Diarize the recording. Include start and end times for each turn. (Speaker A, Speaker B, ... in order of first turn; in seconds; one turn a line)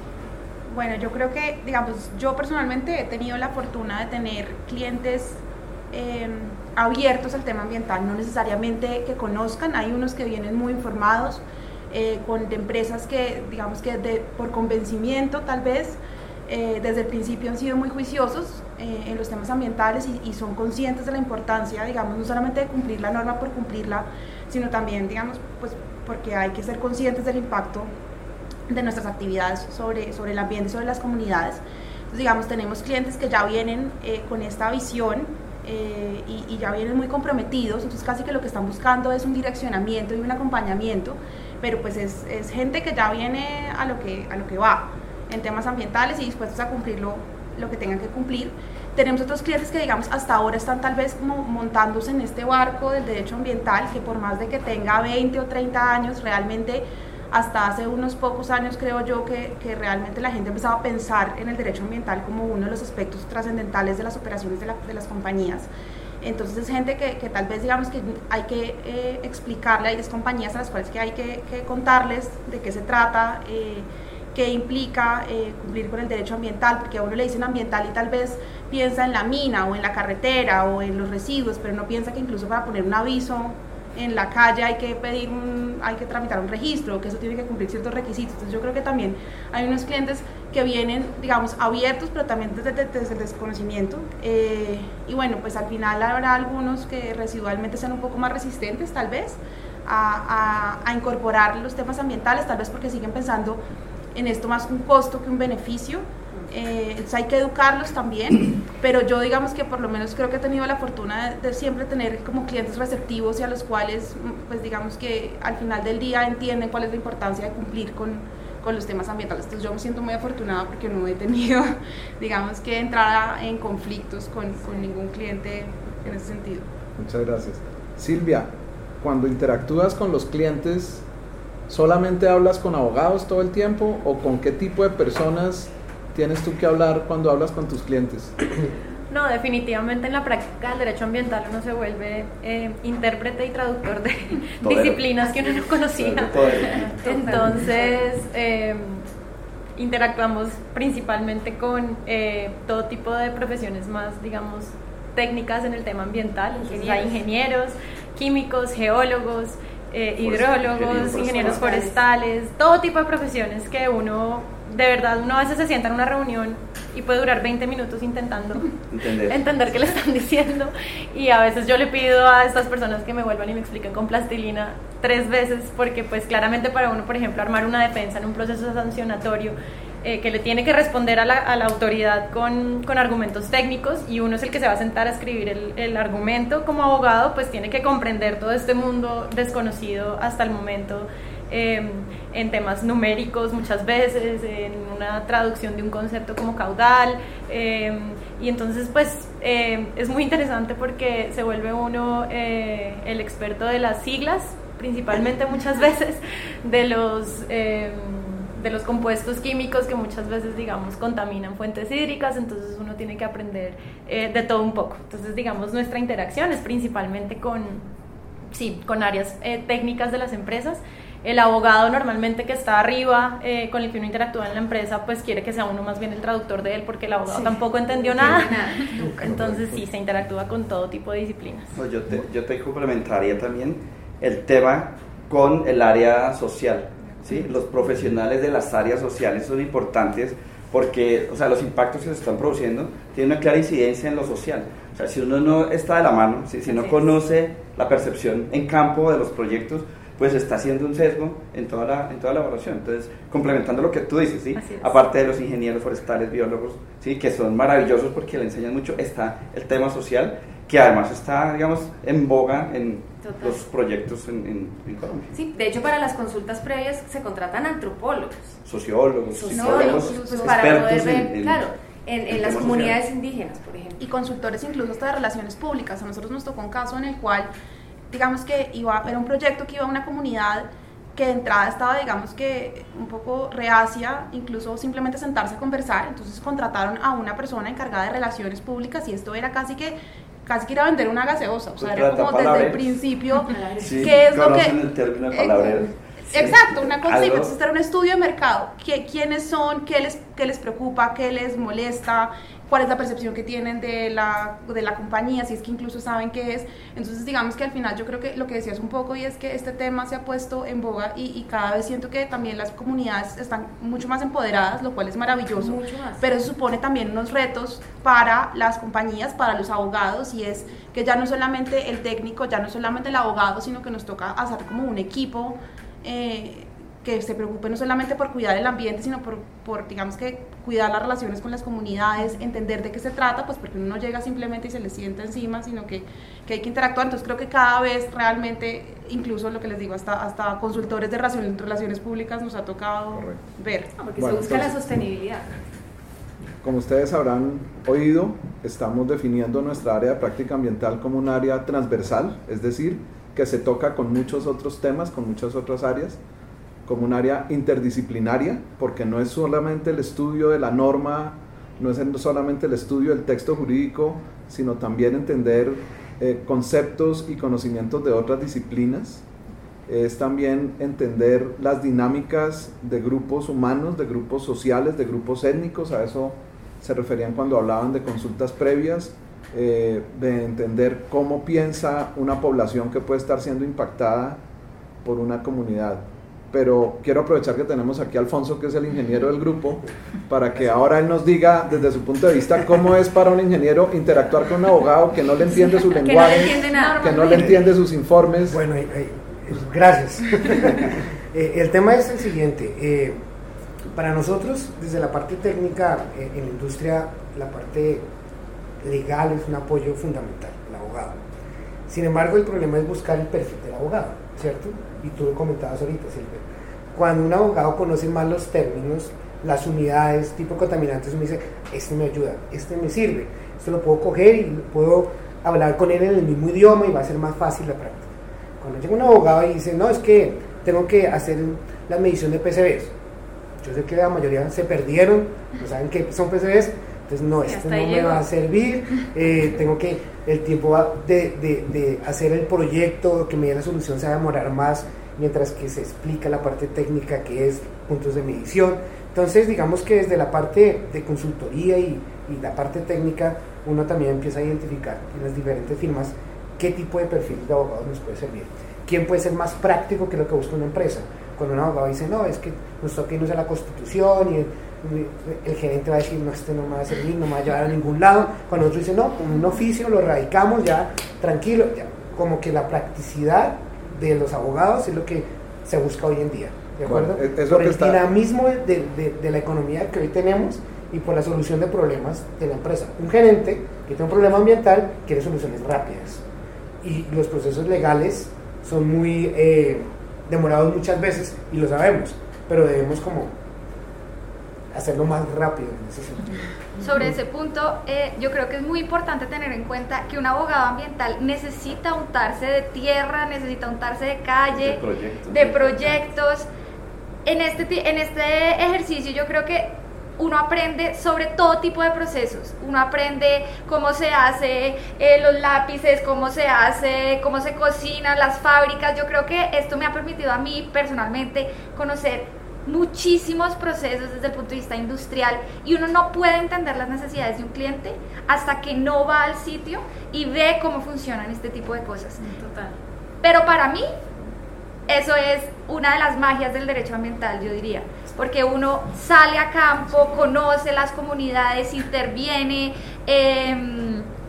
Speaker A: 0.7-27.9
Speaker A: 28.7-65.7
Speaker A: 66.2-103.6
Speaker A: 104.1-126.7
Speaker B: 127.0-128.5
Speaker B: 129.0-131.0
Speaker B: 131.7-138.3
Speaker C: 139.1-149.0
Speaker D: 144.6-145.0
Speaker D: 145.9-146.9
Speaker E: 146.3-147.9
Speaker C: 149.8-168.7
Speaker E: 156.6-157.2
Speaker D: 160.2-161.6
Speaker E: 161.0-162.0
Speaker D: 168.9-169.4
Speaker C: 169.2-217.9
Speaker C: 218.5-231.8
Speaker E: 227.3-229.0
Speaker B: 229.3-229.7
Speaker D: 231.8-265.3
Speaker C: 254.6-255.0
Speaker E: 263.2-263.6
Speaker E: 265.3-268.6
Speaker D: 268.6-271.6
Speaker E: 269.3-274.0
Speaker F: 269.6-270.5
Speaker D: 272.3-273.0
Speaker A: 274.0-277.5
Speaker A: 278.1-294.8
Speaker D: 291.8-293.0
Speaker E: 293.4-294.2
Speaker D: 293.8-297.5
Speaker A: 295.3-343.9
Speaker E: 315.6-316.3
Speaker B: 343.1-343.4
Speaker E: 343.9-345.6
Speaker B: 344.1-344.8
Speaker B: 346.6-356.2
Speaker B: 356.8-369.2
Speaker B: 369.9-384.4
Speaker B: 385.0-398.6
Speaker E: 395.5-397.3
Speaker F: 396.8-397.4
Speaker G: 397.3-397.6
Speaker G: 398.5-403.2
Speaker G: 403.9-408.1
Speaker G: 408.8-411.2
Speaker G: 411.9-428.1
Speaker G: 428.6-432.9
Speaker G: 433.6-486.2
Speaker E: 437.4-438.2
Speaker B: 476.8-478.0
Speaker G: 486.8-493.4
Speaker G: 494.7-497.1
Speaker F: 496.8-506.4
Speaker D: 504.5-506.1
Speaker F: 507.2-532.2
Speaker E: 532.2-532.8
Speaker F: 533.2-533.9
Speaker F: 534.9-544.1